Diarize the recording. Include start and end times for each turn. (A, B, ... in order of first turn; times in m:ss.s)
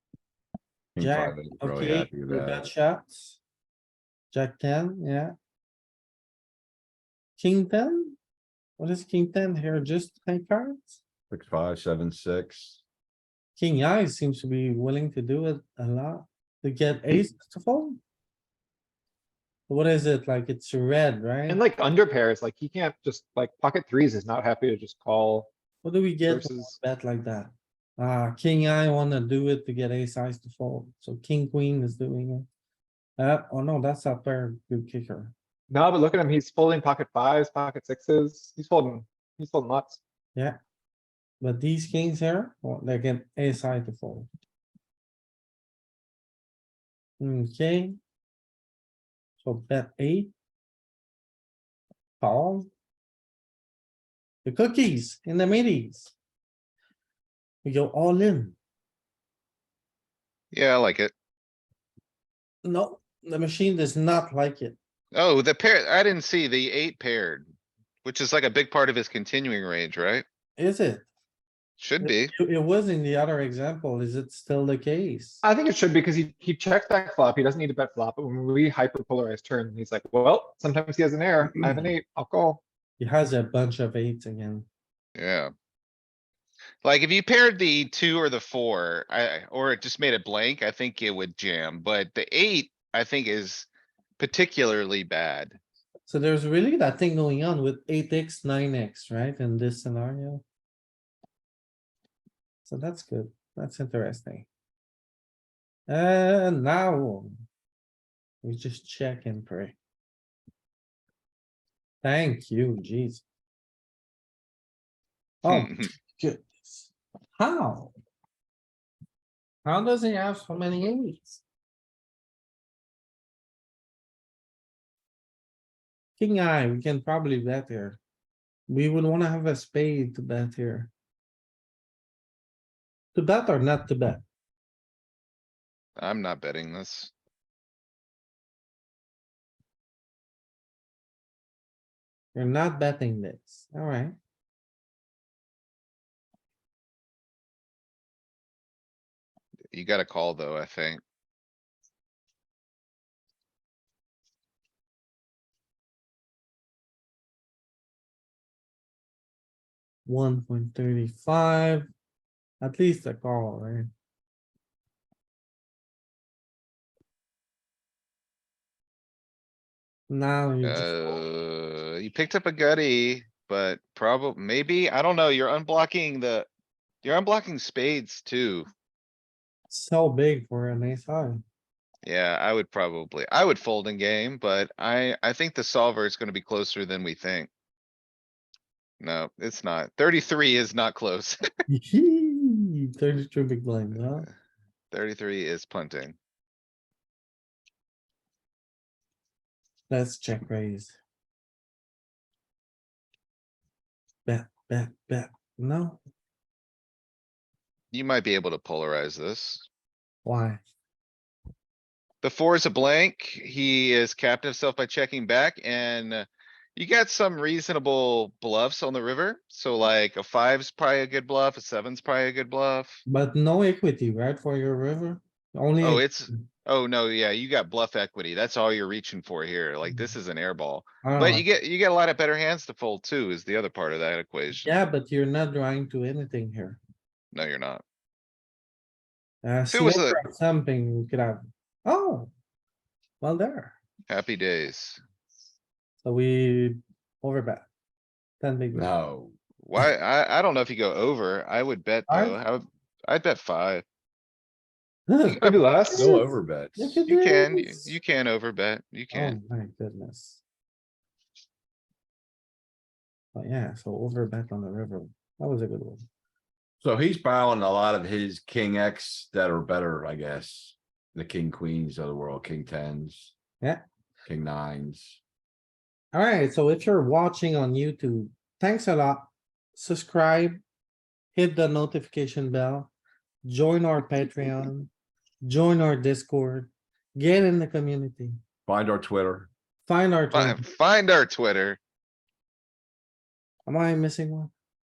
0:00.9-0:02.7 A
0:01.0-0:03.4 B
0:04.3-0:05.3 B
0:07.4-0:08.2 B
0:08.8-0:11.0 B
0:11.3-0:12.8 A
0:13.6-0:18.0 B
0:19.7-0:21.6 B
0:21.5-0:25.5 C
0:25.8-0:32.5 B
0:26.3-0:26.7 C
0:33.2-0:35.3 B
0:35.7-0:40.0 C
0:41.4-0:44.3 B
0:47.2-0:48.0 B
0:49.4-0:50.3 B
0:52.2-0:52.7 B
0:54.4-0:56.1 B
0:57.6-0:58.6 B
1:00.5-1:01.1 D
1:02.6-1:04.8 B
1:05.1-1:07.5 D
1:08.0-1:10.2 D
1:10.6-1:11.1 B
1:11.8-1:12.3 D
1:12.0-1:15.4 B
1:15.4-1:22.6 C
1:21.4-1:21.9 B
1:23.0-1:24.7 B
1:25.2-1:25.5 D
1:26.8-1:33.7 D
1:34.2-1:35.6 D
1:36.1-1:40.4 B
1:42.6-1:44.5 B
1:45.9-1:47.3 B
1:48.4-1:49.8 B
1:52.0-1:53.2 B
1:55.4-1:57.9 B
1:55.4-1:55.9 D
1:59.6-2:01.4 B
2:06.2-2:08.0 B
2:08.7-2:10.9 B
2:13.1-2:14.2 B
2:16.0-2:17.1 D
2:22.3-2:24.2 B
2:29.7-2:31.0 D
2:40.0-2:41.9 B
2:42.6-2:43.9 B
2:50.1-2:50.9 B
2:50.6-2:56.5 D
2:57.0-2:58.7 D
2:59.7-3:01.4 B
3:02.0-3:07.5 D
3:09.0-3:11.4 D
3:11.7-3:14.3 B
3:14.9-3:16.2 D
3:19.9-3:21.0 B
3:24.2-3:26.0 B
3:27.9-3:29.6 D
3:30.2-3:30.6 B
3:32.2-3:43.0 D
3:43.0-3:46.2 B
3:45.8-3:54.8 D
3:51.0-3:51.4 B
3:54.6-3:56.8 B
3:57.3-3:57.8 D
3:59.4-4:02.3 B
3:59.7-4:00.2 D
4:03.2-4:03.7 B
4:04.1-4:05.0 D
4:06.0-4:07.7 B
4:08.4-4:08.9 B
4:08.7-4:09.3 A
4:09.6-4:13.8 D
4:12.1-4:12.4 B
4:15.1-4:17.9 B
4:15.3-4:15.6 D
4:15.4-4:16.2 C
4:15.9-4:17.0 A
4:17.0-4:19.4 D
4:19.1-4:20.4 B
4:23.3-4:26.0 B
4:26.8-4:33.3 A
4:34.2-4:35.2 A
4:36.1-4:40.6 B
4:41.3-4:42.9 B
4:43.4-4:44.9 B
4:45.4-4:48.4 B
4:48.6-4:49.5 A
4:49.8-4:50.6 B
4:50.3-4:51.8 D
4:53.6-4:54.5 B